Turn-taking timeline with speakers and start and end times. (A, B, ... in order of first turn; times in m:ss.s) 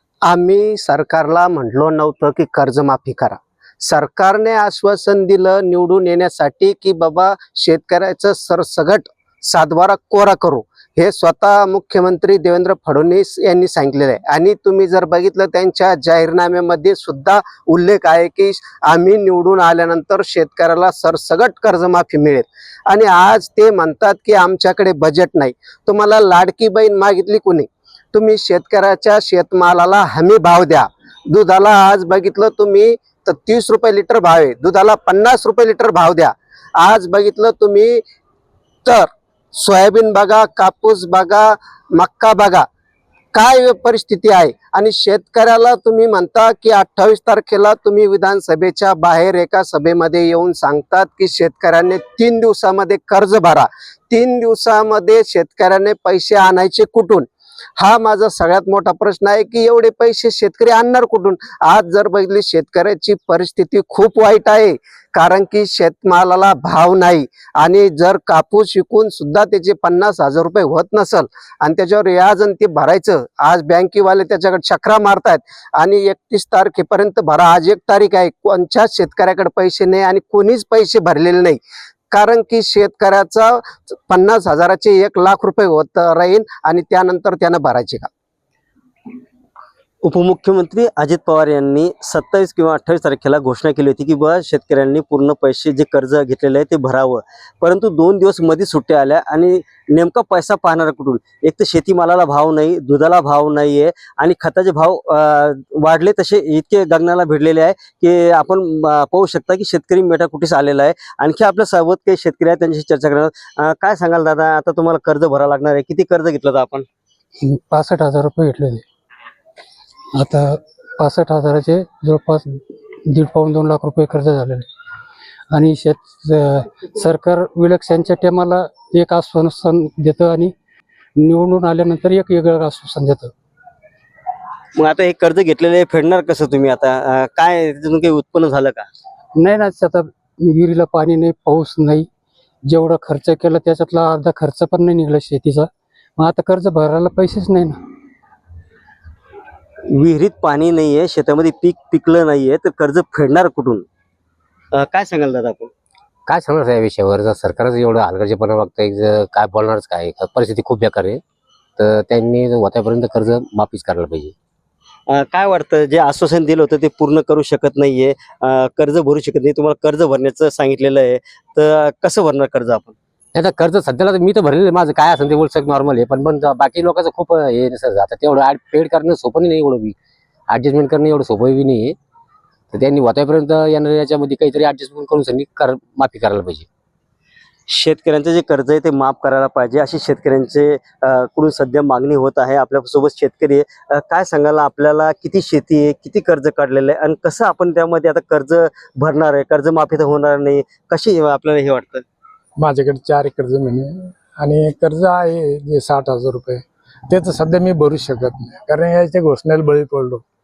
0:00.2-0:38.0 A
0:38.8-0:42.6 A
0:43.3-0:57.2 A
0:57.8-1:21.6 A
1:22.1-1:28.1 A
1:30.0-1:56.8 B
1:57.4-1:58.8 C
2:00.1-2:04.7 C
2:05.5-2:10.5 C
2:11.2-2:13.3 C
2:14.8-2:18.9 B
2:19.4-2:22.1 C
2:22.6-2:27.8 C
2:29.9-2:33.8 B
2:34.8-2:35.7 B
2:36.3-2:41.2 D
2:41.8-2:44.3 D
2:45.1-2:52.9 B
2:53.3-2:59.9 D
3:00.5-3:02.0 D
3:02.7-3:06.6 D
3:07.7-3:22.0 B
3:22.6-3:30.2 E